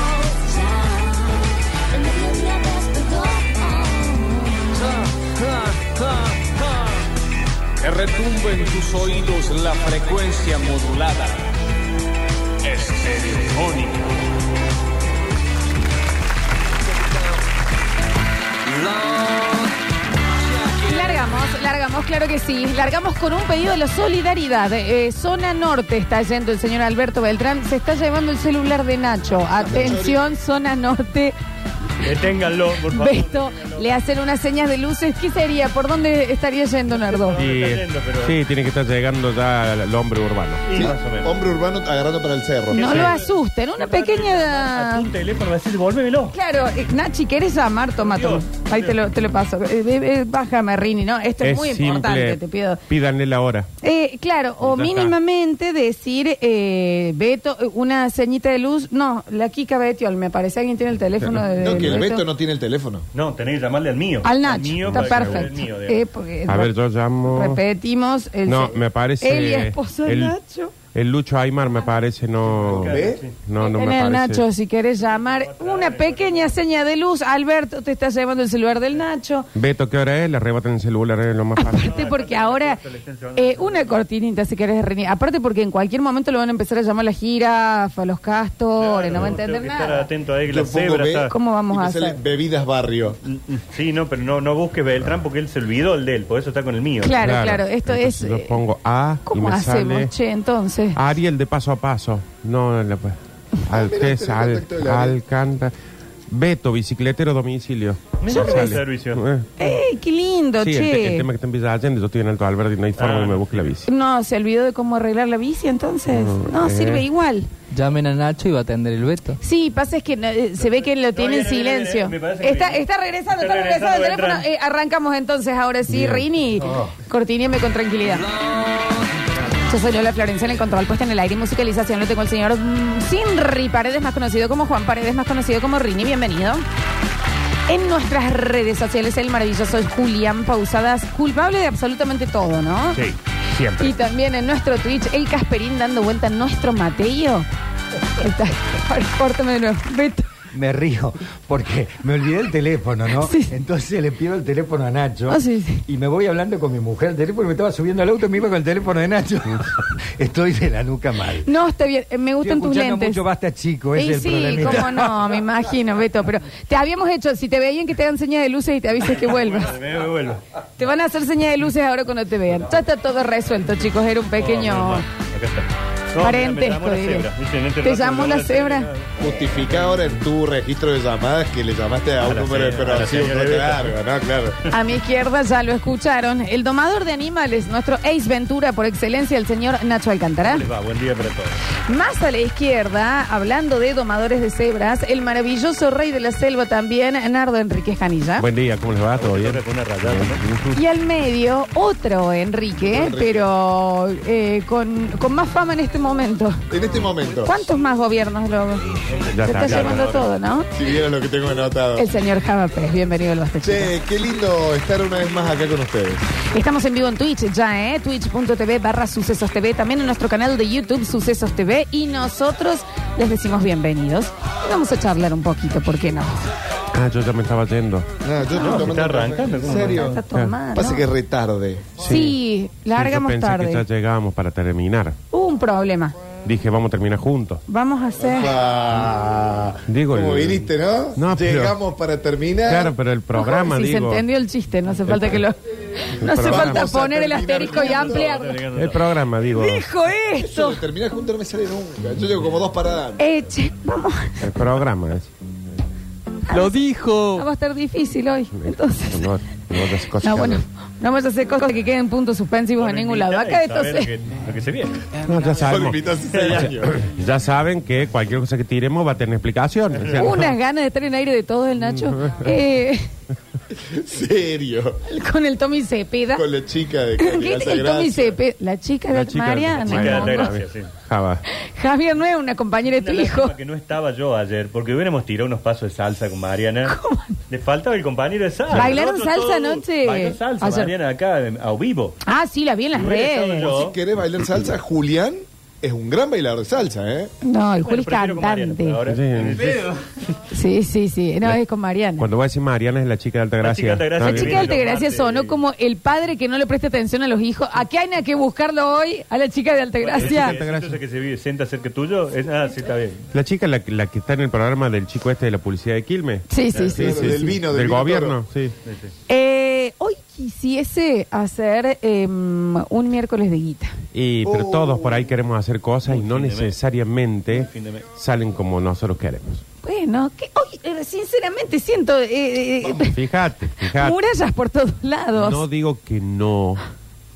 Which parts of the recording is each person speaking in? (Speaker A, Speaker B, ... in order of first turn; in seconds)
Speaker A: 0.3-1.1, 2.1-4.1, 20.8-31.4, 32.9-37.4, 42.7-45.1, 46.3-52.8, 53.8-62.2, 64.2-66.7, 67.2-70.7, 73.6-79.5, 81.5-82.8, 83.3-90.1, 91.3-92.2, 97.0-98.6, 99.2-101.0, 108.3-108.8, 109.6-111.3, 113.8-117.5, 119.4-128.3, 129.6-136.6, 137.7-143.0, 143.8-147.4, 148.2-150.3, 153.2-153.6, 155.3-155.8, 161.4-163.2, 163.9-169.8, 170.8-175.1, 176.2-178.9, 184.7-190.7, 191.8-198.4, 200.7-206.6, 207.4-210.7, 211.9-213.9, 216.5-226.5, 228.5-228.9, 229.7-231.1, 232.0-233.8, 235.3-236.2, 237.7-238.6, 243.3-248.6, 249.5-250.8, 253.2-254.6, 256.4-256.8, 257.3-259.3, 259.9-264.1, 270.1-273.0, 275.0-276.4, 277.2-280.6, 281.5-283.5, 286.9-287.4, 288.7-290.9, 292.2-293.7, 297.4-299.0, 300.5-302.3, 304.2-310.6, 316.5-317.3, 319.3-323.9, 329.8-333.3, 333.8-335.6
Speaker B: 5.5-5.9, 7.8-11.4, 12.6-14.1
Speaker C: 29.7-30.3, 40.7-43.1, 61.6-63.0, 72.7-73.2, 90.5-93.2, 103.7-105.2, 179.2-184.7, 202.8-203.5, 206.7-207.6, 210.7-212.1, 213.6-216.2, 228.2-230.2, 230.7-232.0, 238.2-242.9, 246.3-248.3, 250.3-253.2, 265.5-266.9, 273.7-275.0, 276.3-278.4, 293.6-297.3, 316.8-318.4, 324.4-325.3
Speaker D: 32.0-34.0, 37.1-38.4, 40.6-41.5, 42.7-46.4, 48.0-49.0, 63.1-66.0, 72.5-73.3, 75.0-76.6, 81.8-84.0, 88.8-91.3, 93.2-97.2, 108.2-109.2, 113.0-113.7, 121.0-124.5, 169.0-170.4, 174.4-180.1, 182.2-184.0, 190.4-191.8, 199.2-200.4, 209.1-210.3, 228.6-230.2, 247.6-249.1, 262.8-265.1, 266.3-266.8, 279.8-280.9, 282.8-286.9, 287.5-292.2, 292.9-293.9, 297.8-300.4, 303.6-305.6, 310.0-313.2, 316.7-317.1, 318.8-319.1, 326.1-326.8, 327.5-328.0
Speaker E: 37.3-40.6, 51.4-53.7, 54.6-55.2, 61.2-62.0, 64.8-65.5, 66.5-67.6, 68.5-70.3, 70.9-74.5, 79.5-82.0, 97.2-100.1, 100.9-105.7, 106.3-109.5, 110.6-113.9, 116.1-117.1, 125.9-126.2, 142.9-143.9, 198.4-200.8, 209.3-210.0, 226.9-228.1, 232.0-232.4, 232.9-235.2, 236.4-237.6, 239.9-241.8, 242.6-244.2, 245.1-245.4, 246.2-246.9, 248.7-249.8, 254.4-255.3, 258.5-260.6, 265.2-270.5, 271.8-272.4, 279.1-281.4, 288.7-289.0, 299.1-299.8, 302.2-304.7, 310.2-311.0, 313.3-318.7, 324.1-329.6, 332.9-334.2, 335.3-336.8
Speaker F: 117.7-119.4, 256.5-257.5
Speaker G: 150.5-161.5, 162.4-165.3